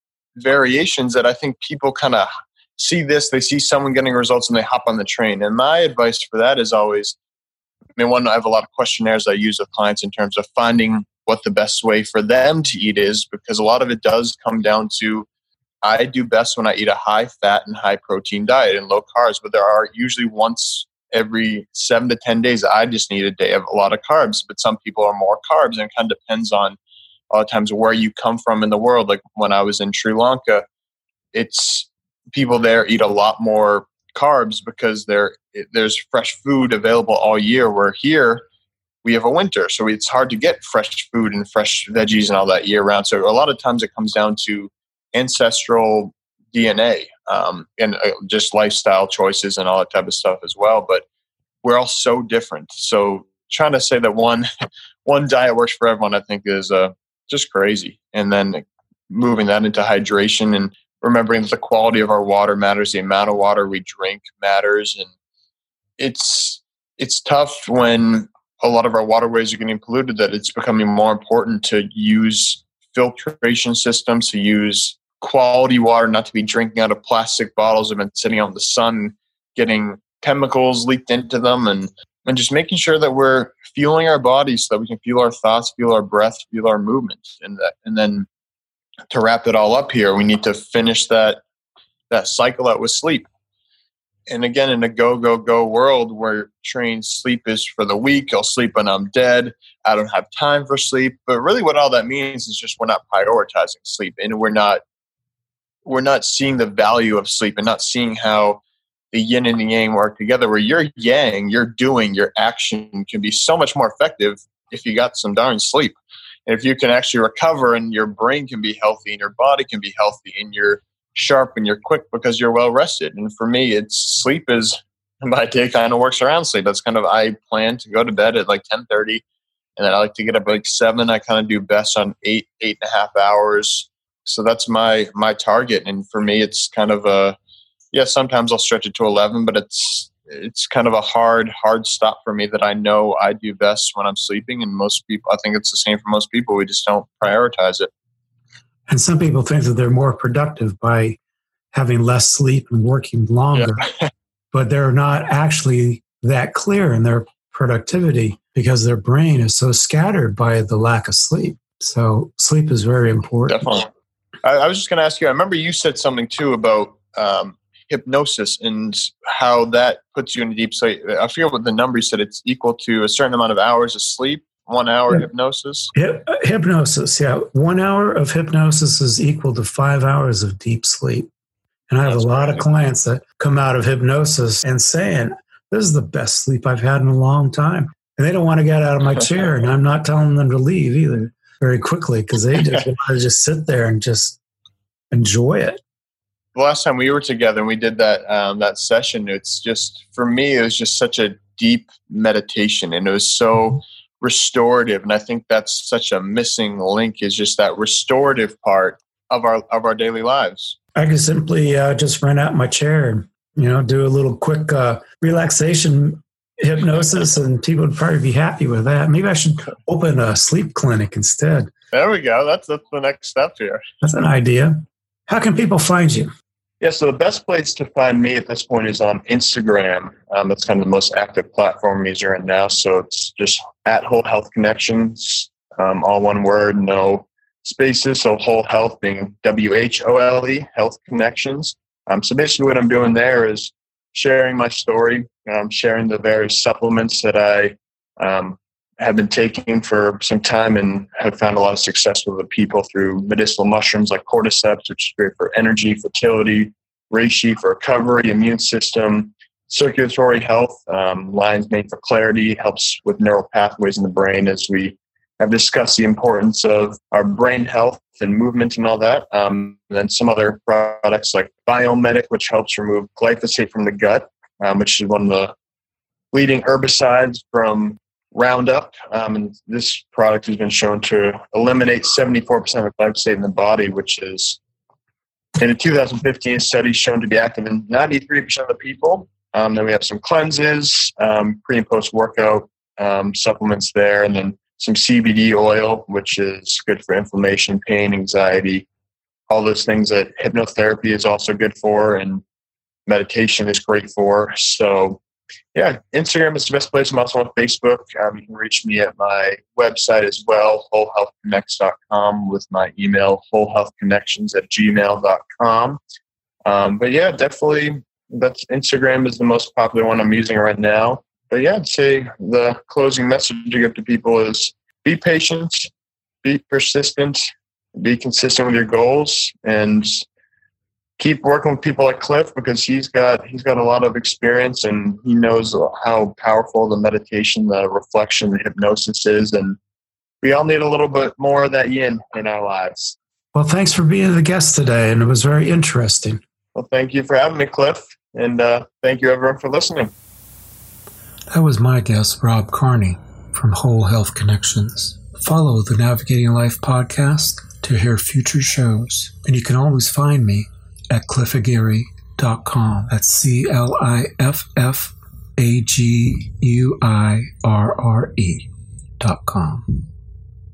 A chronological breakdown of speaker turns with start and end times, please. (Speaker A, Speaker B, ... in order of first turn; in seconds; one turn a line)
Speaker A: 0.3-7.2
Speaker A: 8.0-15.3
Speaker A: 15.8-26.8
Speaker A: 27.3-30.6
Speaker A: 31.3-38.4
Speaker A: 39.0-51.0
Speaker A: 51.6-54.5
Speaker A: 55.0-65.1
Speaker A: 66.0-88.3
Speaker A: 89.1-91.4
Speaker A: 92.1-93.3
Speaker A: 94.3-104.8
Speaker A: 105.8-108.6
Speaker A: 109.1-129.2
Speaker A: 129.8-137.4
Speaker A: 137.9-147.9
Speaker B: 148.9-151.2
Speaker B: 151.7-153.8
Speaker A: 153.5-154.1
Speaker B: 154.5-163.7
Speaker A: 163.5-163.9
Speaker A: 164.4-175.9
Speaker B: 175.9-181.3
Speaker B: 181.9-194.4
Speaker A: 182.1-182.6
Speaker B: 195.1-195.8
Speaker A: 196.5-210.8
Speaker B: 210.9-221.7
Speaker A: 221.9-223.8
Speaker B: 224.0-226.3
Speaker A: 226.8-275.5
Speaker A: 276.3-284.6
Speaker A: 285.6-298.9
Speaker A: 299.5-302.4
Speaker A: 303.1-305.2
Speaker A: 305.7-316.0
Speaker A: 316.6-325.9
Speaker A: 326.4-330.2
Speaker A: 331.2-339.8
Speaker A: 340.4-343.1
Speaker B: 343.5-346.4
Speaker A: 346.7-350.1
Speaker B: 351.5-370.1